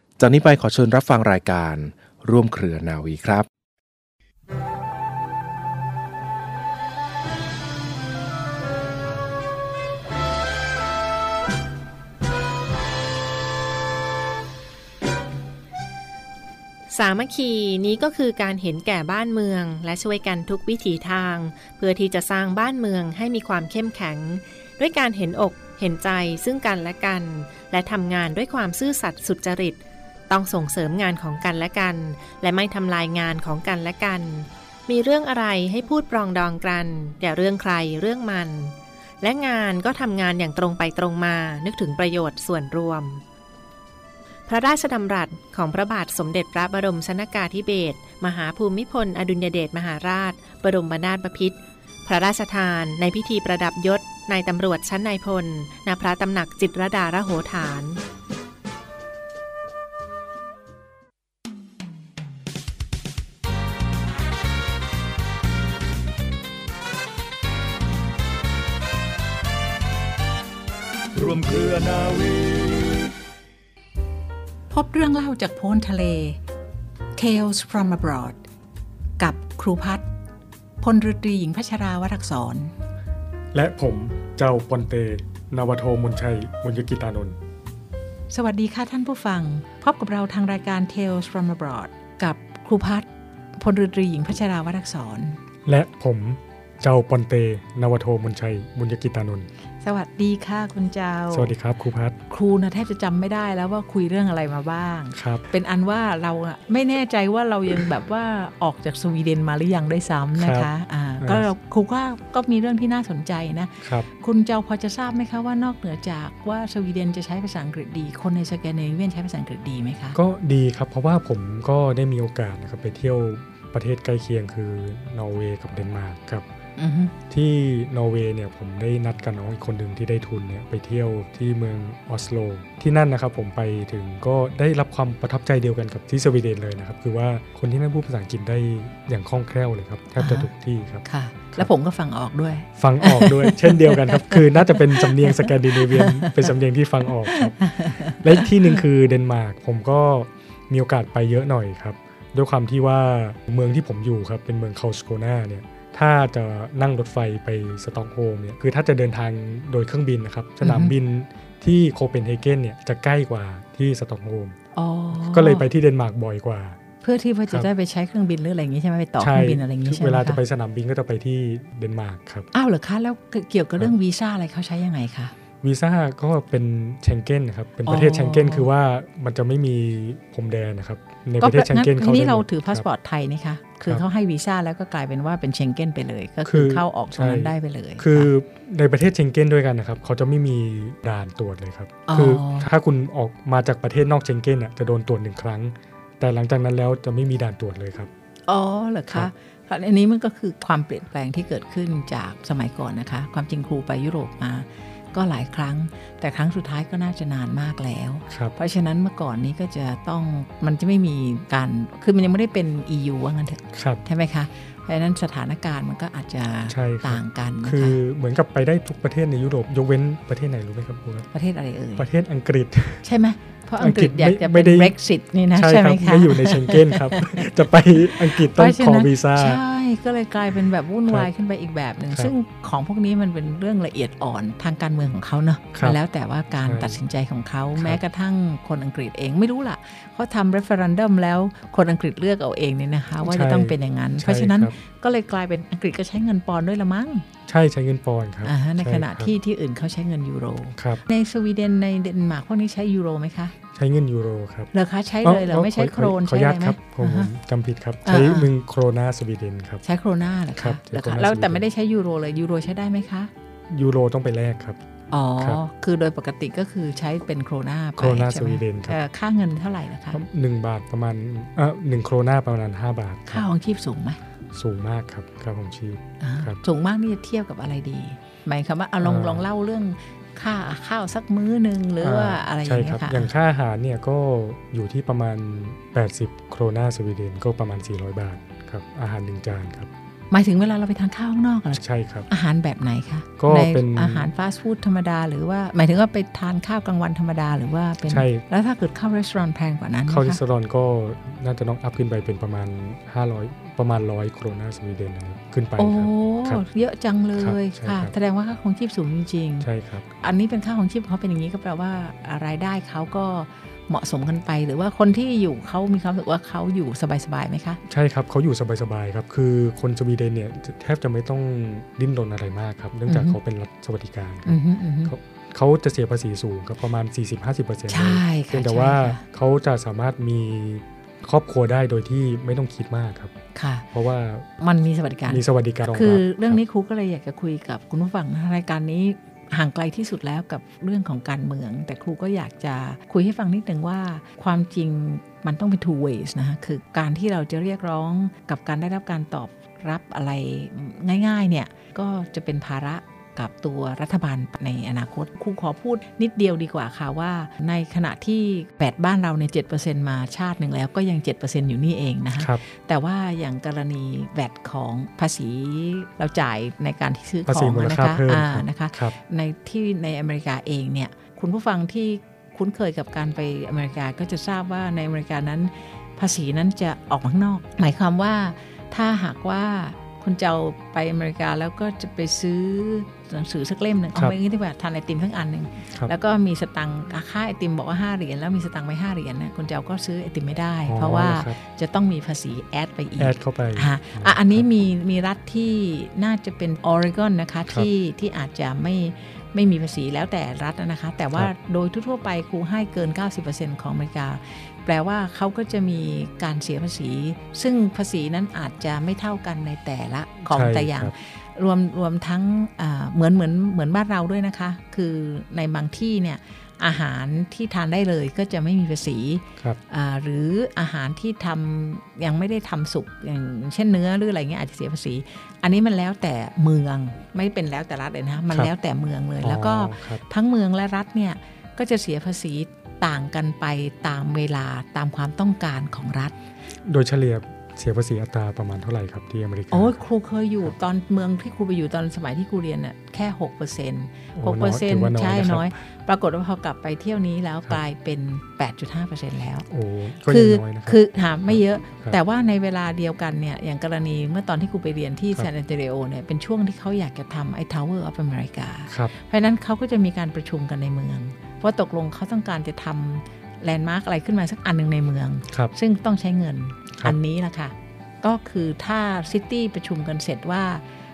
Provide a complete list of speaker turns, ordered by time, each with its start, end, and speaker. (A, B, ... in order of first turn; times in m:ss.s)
0:00.2-0:03.5 A
0:16.9-0:29.8 B
0:30.3-0:43.2 B
0:44.5-0:58.0 B
1:11.1-1:13.1 C
1:14.7-1:16.4 D
1:17.2-1:18.4 D
1:19.2-1:20.1 D
1:20.8-1:22.7 D
1:23.5-1:27.4 E
1:28.3-1:35.4 D
1:35.6-1:39.5 E
1:39.8-1:41.5 D
1:41.3-1:42.2 E
1:42.3-2:00.2 D
1:45.1-1:45.5 E
1:50.3-1:50.7 E
1:51.2-1:51.5 E
2:00.1-2:06.4 E
2:06.8-2:07.2 D
2:07.3-2:21.7 E
2:20.2-2:20.5 D
2:21.0-2:26.5 D
2:22.8-2:44.6 E
2:27.3-2:28.8 D
2:40.6-2:40.9 D
2:44.7-2:45.7 D
2:45.1-2:46.8 E
2:47.0-2:50.4 D
2:49.2-2:52.5 E
2:52.5-2:55.3 D
2:55.6-3:02.8 E
2:57.8-2:58.7 D
3:01.4-3:08.3 D
3:06.4-3:18.1 E
3:12.1-3:12.7 D
3:18.5-3:38.0 D
3:28.3-3:28.5 E
3:33.7-3:34.0 E
3:36.7-3:41.3 E
3:41.3-3:42.1 D
3:42.0-3:43.0 E
3:43.0-3:47.5 D
3:43.8-3:44.9 E
3:45.5-3:49.6 E
3:48.1-4:07.2 D
3:56.6-3:57.0 E
4:03.2-4:04.7 E
4:07.5-4:09.3 E
4:08.4-4:13.6 D
4:13.7-4:14.7 E
4:14.7-4:17.3 D
4:15.2-4:19.8 E
4:18.0-4:18.5 D
4:19.8-4:23.3 D
4:20.6-4:21.6 E
4:23.7-4:24.8 E
4:25.1-4:30.2 D
4:28.0-4:29.0 E
4:30.1-4:33.4 E
4:33.3-4:34.2 D
4:34.5-4:36.6 E
4:36.2-4:43.3 D
4:39.0-4:39.4 E
4:42.0-4:49.9 E
4:50.3-5:00.4 D
4:51.7-4:52.3 E
4:53.4-4:54.3 E
4:58.1-4:58.4 E
5:00.1-5:06.6 E
5:05.8-5:17.8 D
5:07.4-5:08.1 E
5:09.6-5:10.0 E
5:17.9-5:33.3 E
5:23.1-5:23.4 D
5:24.4-5:25.1 D
5:27.9-5:29.2 D
5:33.5-5:33.8 D
5:33.9-5:34.5 E
5:34.6-7:16.4 D
5:35.3-5:36.6 E
6:02.4-6:02.6 E
6:07.5-6:09.2 E
6:30.8-6:31.6 E
6:33.2-6:34.6 E
6:50.5-6:51.1 E
7:09.4-7:10.2 E
7:16.8-7:20.0 E
7:19.7-7:29.7 D
7:24.4-7:25.7 E
7:29.7-7:31.0 E
7:30.3-7:50.8 D
7:31.5-7:32.2 E